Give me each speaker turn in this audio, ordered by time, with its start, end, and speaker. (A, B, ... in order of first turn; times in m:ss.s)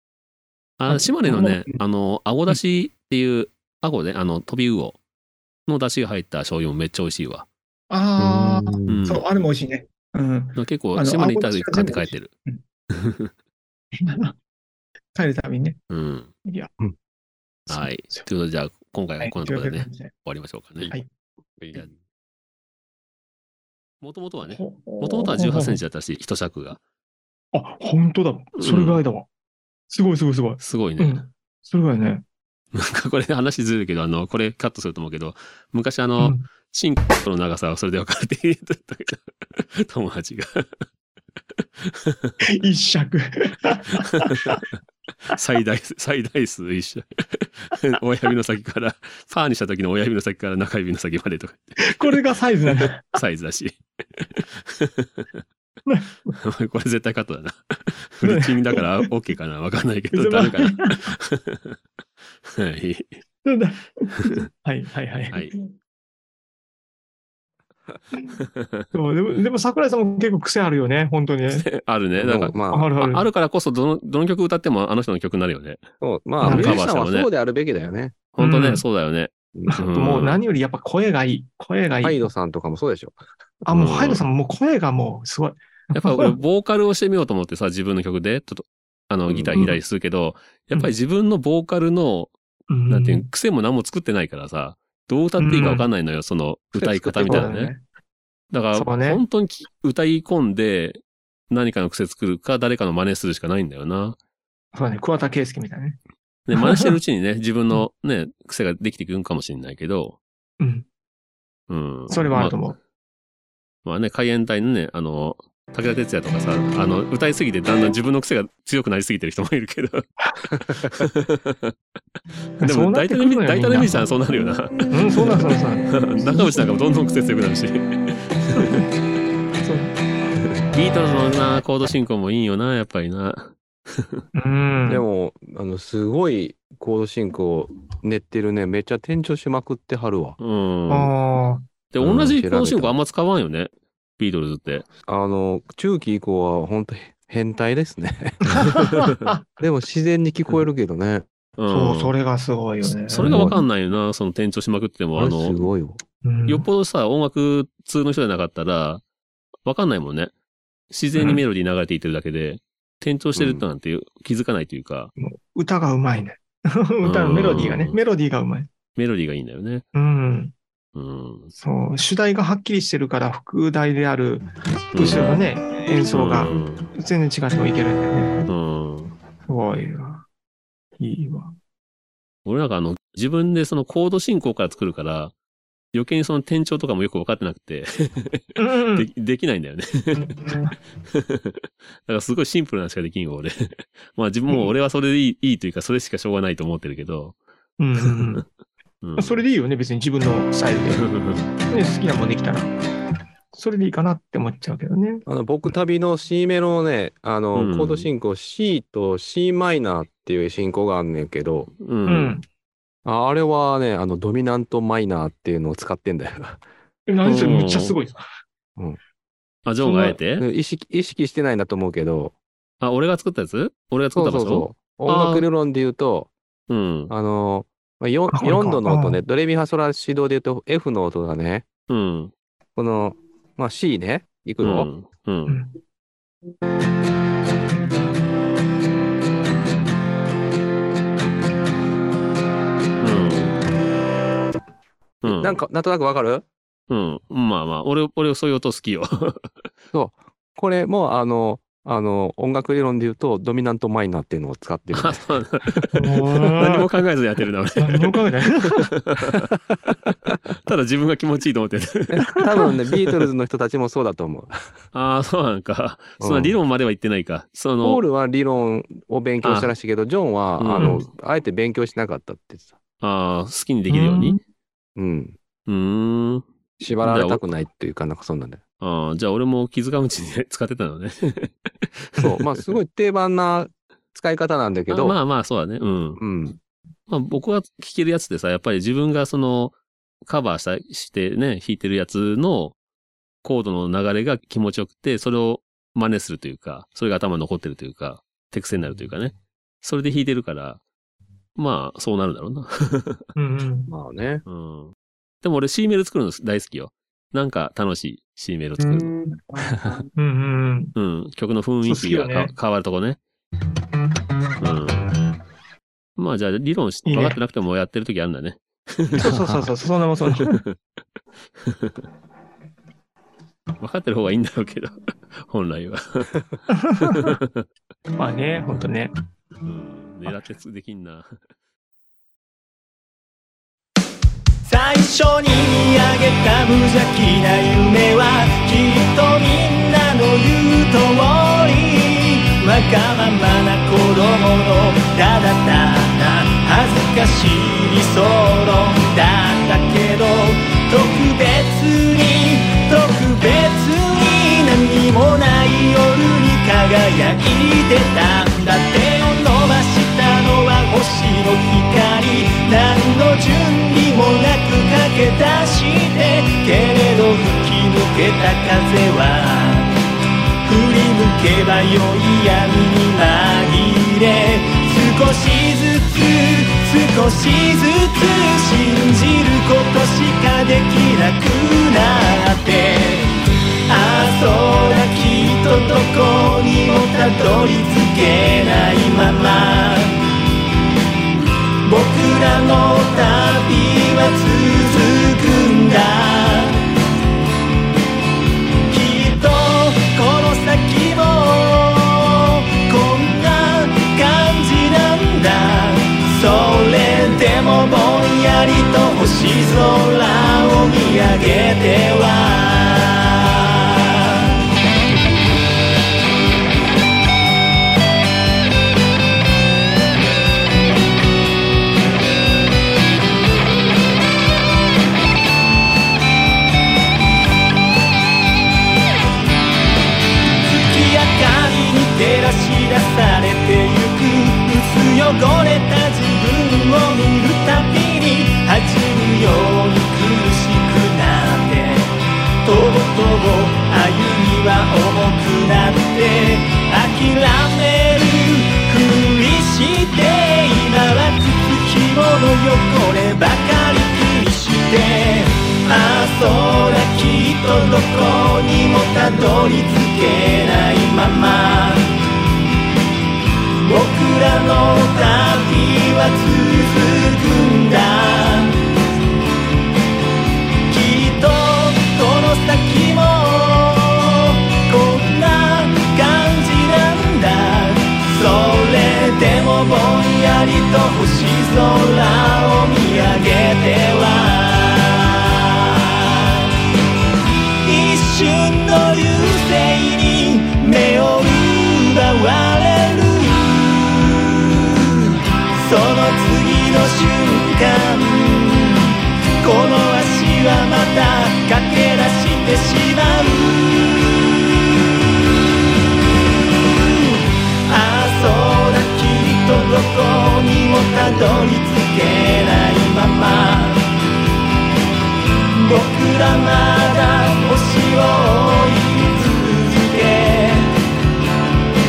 0:00.8-0:05.0 A
0:00.9-0:01.8 B
0:05.7-0:07.5 A
0:07.9-0:12.6 B
0:08.4-0:09.2 A
0:08.5-0:09.0 C
0:10.6-0:12.3 A
0:12.9-0:13.3 A
0:14.0-0:14.4 B
0:15.1-0:15.8 B
0:15.9-0:16.3 A
0:16.4-0:16.7 B
0:17.7-0:18.3 B
0:17.7-0:20.9 A
0:19.2-0:20.1 B
0:21.6-0:22.0 C
0:24.0-0:26.8 A
0:24.4-0:25.8 B
0:27.5-0:29.3 B
0:28.6-0:29.0 A
0:29.9-0:32.2 B
0:30.6-0:31.3 A
0:32.7-0:40.9 A
0:36.2-0:36.5 B
0:41.8-0:42.4 A
0:42.5-0:44.6 B
0:44.0-0:44.6 A
0:45.3-0:52.2 A
0:51.9-0:53.1 B
0:52.7-0:55.4 A
0:55.9-0:56.4 B
0:56.4-1:01.8 A
0:58.2-0:59.1 B
1:00.1-1:01.0 B
1:02.4-1:03.2 A
1:03.4-1:05.7 B
1:08.4-1:08.8 A
1:08.9-1:11.7 B
1:11.5-1:15.8 A
1:12.2-1:12.9 C
1:12.7-1:13.3 B
1:16.0-1:18.2 C
1:16.4-1:17.3 A
1:16.4-1:16.8 B
1:18.4-1:20.4 A
1:18.4-1:18.8 B
1:19.7-1:22.3 B
1:22.0-1:23.2 C
1:23.7-1:26.4 B
1:23.7-1:24.2 A
1:25.9-1:32.3 A
1:29.3-1:29.6 C
1:29.5-1:29.8 B
1:32.7-1:33.3 B
1:32.9-1:37.7 A
1:35.4-1:35.9 B
1:36.8-1:37.6 C
1:37.3-1:37.8 B
1:38.5-1:44.2 A
1:38.7-1:39.2 B
1:44.7-1:46.0 B
1:46.5-1:50.2 A
1:46.5-1:46.9 B
1:50.6-1:50.9 B
1:51.7-1:52.6 A
1:52.1-1:52.8 B
1:53.8-2:01.7 A
2:02.6-2:08.8 A
2:02.6-2:04.0 B
2:04.9-2:06.6 B
2:08.6-2:08.9 B
2:09.6-2:09.9 B
2:10.4-2:14.2 A
2:14.4-2:15.0 B
2:14.9-2:20.4 C
2:20.4-2:21.1 A
2:20.9-2:21.7 B
2:21.9-2:24.9 A
2:22.0-2:23.0 C
2:25.0-2:28.6 C
2:28.6-2:29.4 B
2:29.6-2:31.3 C
2:31.6-2:32.1 A
2:31.7-2:33.5 B
2:33.1-2:35.7 A
2:33.2-2:33.6 C
2:35.2-2:36.0 C
2:36.2-2:36.7 B
2:36.5-2:39.0 A
2:39.6-2:40.3 A
2:40.9-2:45.1 A
2:41.2-2:41.4 B
2:43.4-2:43.7 C
2:45.2-2:48.7 B
2:47.0-2:48.0 A
2:49.0-2:49.9 A
2:49.9-2:50.5 B
2:51.0-2:51.5 A
2:51.5-2:58.4 B
2:54.9-2:55.5 A
2:56.1-2:56.9 A
2:58.5-2:59.2 A
2:59.5-3:00.2 B
3:01.0-3:01.6 B
3:02.5-3:05.3 A
3:05.9-3:10.4 A
3:08.6-3:09.1 B
3:10.2-3:10.8 B
3:11.0-3:17.4 A
3:17.8-3:18.4 B
3:18.0-3:18.4 A
3:19.0-3:19.4 A
3:19.2-3:21.0 B
3:21.0-3:21.5 A
3:21.7-3:22.7 B
3:23.5-3:25.2 B
3:25.3-3:31.7 C
3:27.5-3:28.1 A
3:31.8-3:32.4 A
3:32.1-3:32.4 B
3:33.0-3:36.6 C
3:37.1-3:38.2 B
3:37.2-3:38.0 A
3:39.7-3:40.5 A
3:39.8-3:42.4 C
3:42.8-3:45.4 A
3:44.2-3:46.3 C
3:46.7-3:47.1 A
3:47.1-3:51.7 C
3:48.3-3:49.2 B
3:51.9-3:52.3 A
3:52.8-3:54.9 C
3:54.6-3:55.6 A
4:03.0-4:03.6 A
4:05.2-4:05.6 A
4:05.3-4:06.5 C
4:06.9-4:09.5 A
4:09.9-4:15.2 C
4:14.9-4:19.5 A
4:15.9-4:16.9 B
4:17.8-4:18.9 B
4:20.7-4:22.8 A
4:22.1-4:24.7 C
4:24.9-4:28.0 A
4:26.2-4:26.6 C
4:27.8-4:32.8 C
4:29.4-4:29.7 A
4:30.6-4:31.1 A
4:30.8-4:31.0 B
4:33.0-4:34.4 A
4:33.9-4:34.4 B
4:35.0-4:35.4 C
4:35.7-4:36.5 A
4:36.8-4:38.6 C
4:37.0-4:37.4 A
4:38.8-4:42.3 A
4:42.2-4:45.2 C
4:44.9-4:46.2 A
4:46.2-4:46.6 C
4:47.1-4:52.8 A
4:53.4-5:00.8 A
5:01.6-5:03.2 A
5:03.4-5:03.9 B
5:03.9-5:04.4 C
5:04.5-5:09.1 A
5:08.8-5:09.5 B
5:10.2-5:10.9 B
5:11.0-5:13.2 A
5:11.8-5:12.5 B
5:14.6-5:15.1 A
5:16.2-5:19.5 A
5:17.0-5:17.4 B
5:19.2-5:20.6 B
5:20.3-5:20.7 A
5:21.6-5:22.0 A
5:23.8-5:27.7 A
5:26.7-5:27.4 B
5:28.2-5:29.1 B
5:29.6-5:31.4 A
5:34.6-6:10.0 D
6:10.6-6:23.4 D
6:23.9-6:30.2 D
6:31.8-6:36.8 D
6:38.9-6:53.7 D
7:10.6-7:42.1 D
7:43.8-7:48.8 D
7:50.9-8:06.5 D
8:07.8-8:14.0 D
8:14.7-8:24.2 D
8:26.9-8:34.0 D
8:35.8-8:40.9 D